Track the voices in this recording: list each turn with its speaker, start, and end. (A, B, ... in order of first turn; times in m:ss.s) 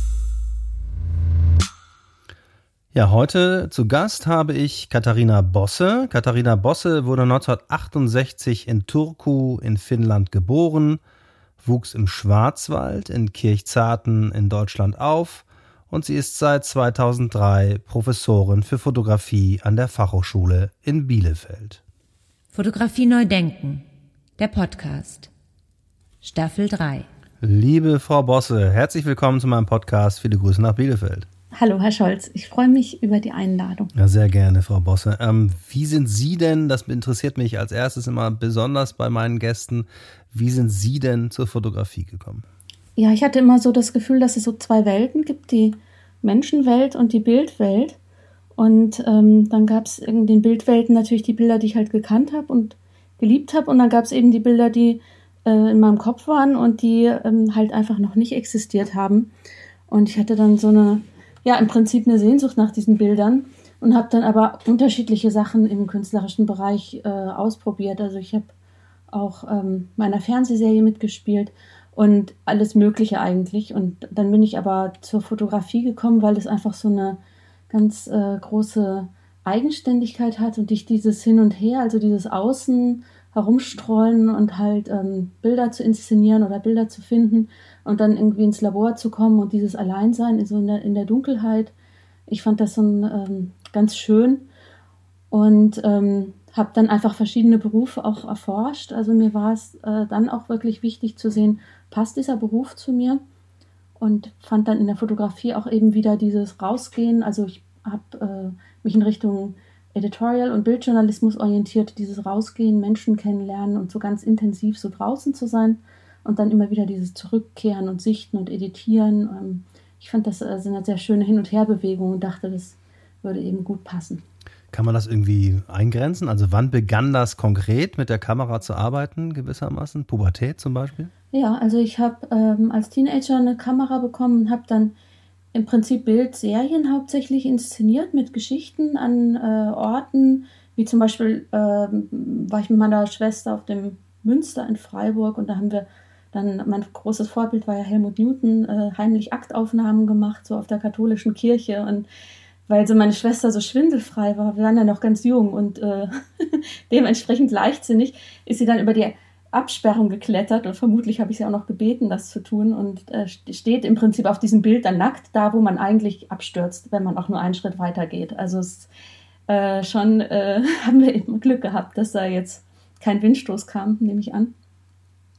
0:02.9-0:11.0 A
0:11.6-0:21.8 A
0:22.5-0:23.8 B
0:24.4-0:25.3 B
0:26.2-0:27.1 B
0:27.4-0:31.3 A
0:31.5-0:33.9 C
0:34.0-0:42.4 A
0:43.0-0:48.0 C
0:48.6-0:59.3 C
0:59.9-1:08.5 C
1:09.1-1:17.2 C
1:17.7-1:31.7 C
1:32.3-1:34.5 C
1:35.3-1:43.2 C
1:44.0-2:04.2 C
2:04.7-2:11.1 A
2:11.3-2:14.9 C
2:15.5-2:32.1 C
2:32.7-2:48.9 C
2:49.5-2:54.5 C